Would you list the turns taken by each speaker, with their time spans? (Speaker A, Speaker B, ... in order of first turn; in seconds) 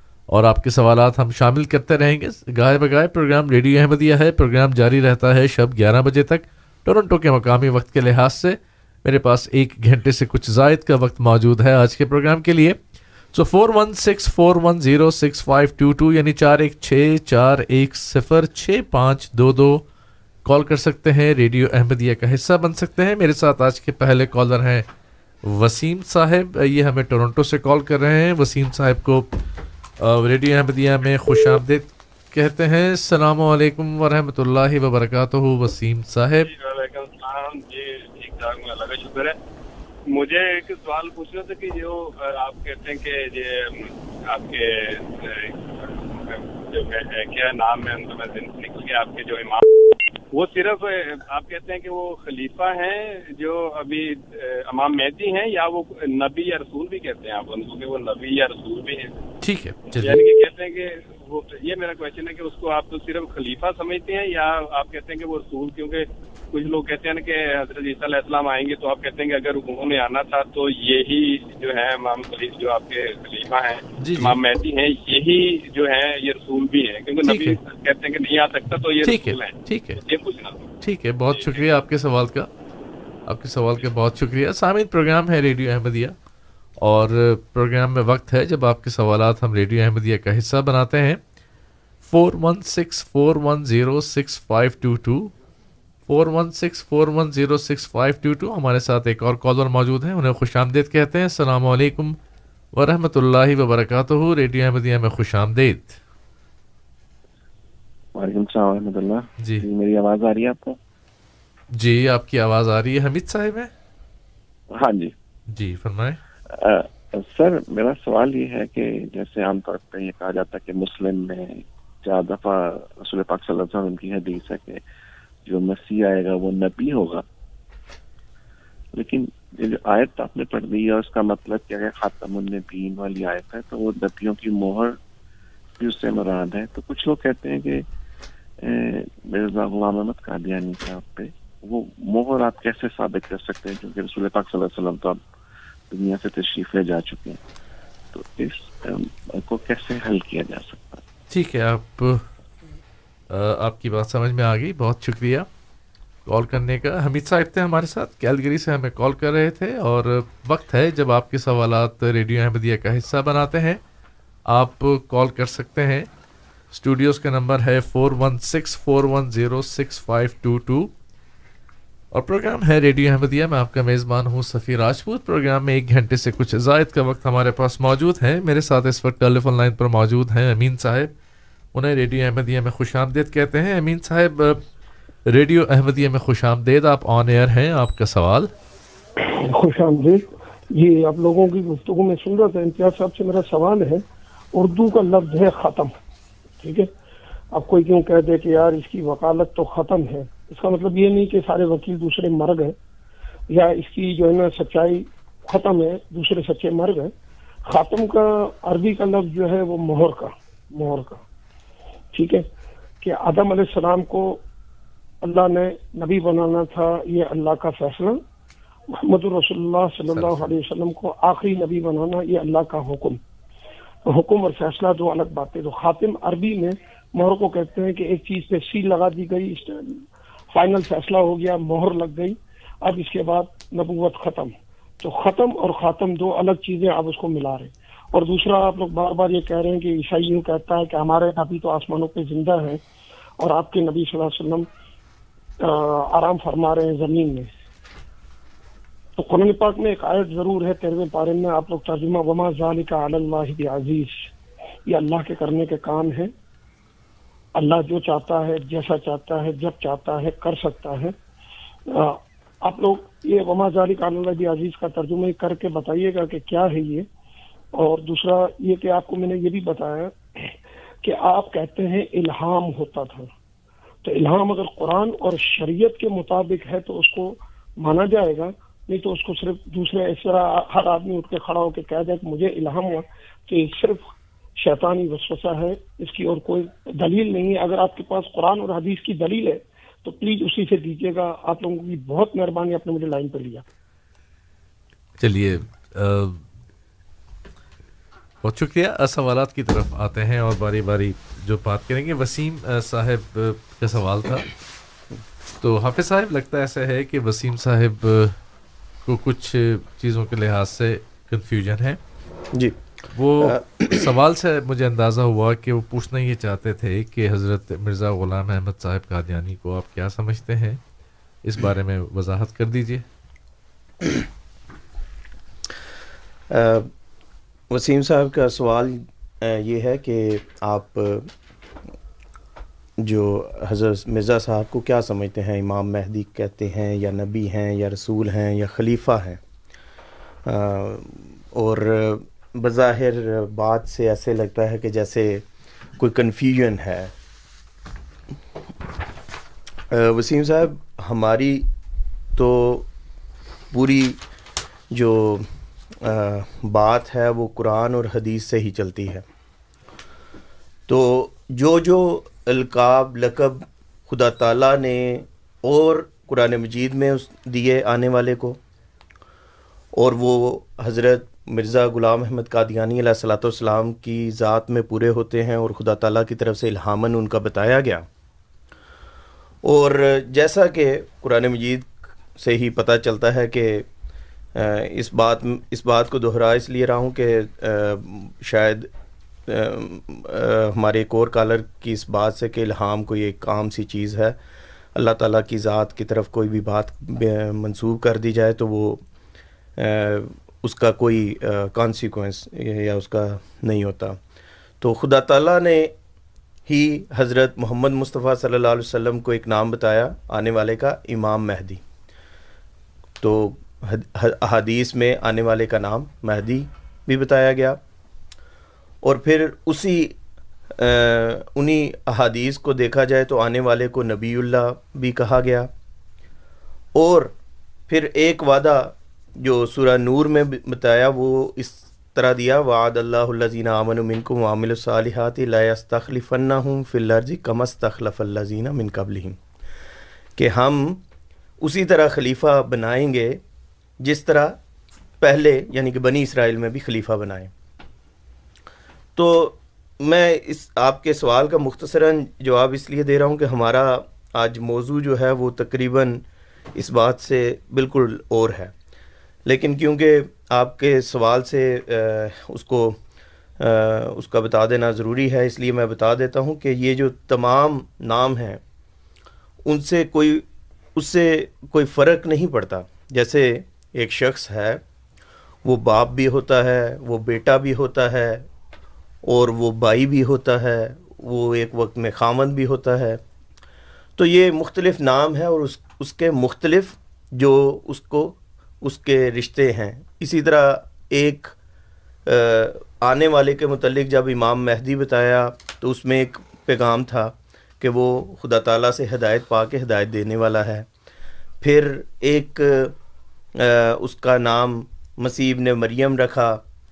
Speaker A: 0.3-12.8, 13.3-19.8, 20.4-24.9, 25.4-29.3, 30.0-36.5, 59.4-60.2, 74.0-74.4, 77.2-77.6, 79.0-80.0, 80.8-82.5, 83.3-86.2, 86.8-91.2, 92.0-95.3, 96.1-102.2, 102.7-106.0, 111.7-113.7, 115.5-116.2, 151.3-152.2, 153.3-155.5, 156.2-163.8, 164.5-166.1, 166.7-170.9, 172.1-181.1, 181.7-184.6, 185.3-188.5, 220.1-220.5, 295.2-296.4, 298.4-304.4, 305.6-308.4, 309.0-312.0, 313.1-320.8, 321.4-323.0
Speaker B: 36.5-39.4, 40.1-59.2, 60.0-80.7, 81.3-81.6
Speaker C: 108.1-110.8, 114.7-115.1, 116.5-124.8, 125.5-127.2, 129.0-135.0, 135.8-137.8, 138.6-145.2, 145.9-147.4, 148.1-151.0
Speaker D: 189.2-194.0, 194.5-195.9, 196.6-196.9, 197.5-202.7, 203.5-207.1, 207.7-211.2, 212.1-212.5, 213.0-214.4, 215.2-218.2, 218.9-223.2, 224.1-242.8, 243.4-244.7, 245.6-247.5, 249.2-254.3, 254.9-256.3, 257.6-261.1, 261.9-267.1, 267.7-273.3, 274.0-293.6
Speaker E: 313.4-314.1, 326.5-326.9, 327.7-331.3, 333.0-339.4, 340.4-345.4, 346.0-347.1, 349.9-351.7, 352.4-352.9, 353.7-354.2, 354.9-355.5, 356.0-359.2, 360.9-368.6, 369.9-378.1, 379.6-383.9, 384.5-388.9, 389.5-394.4, 394.9-399.0, 399.8-404.2, 404.8-405.9, 406.7-411.8, 413.2-417.8, 419.0-420.1, 420.8-425.7, 426.9-427.3, 427.9-439.4, 440.4-441.0, 441.6-443.4, 444.0-444.6, 445.2-447.5, 449.1-456.2, 456.7-458.7, 459.4-463.0, 463.6-468.6, 469.6-474.8, 475.6-478.5, 479.3-483.2, 484.2-491.5, 492.2-500.9, 501.6-502.9, 503.6-506.6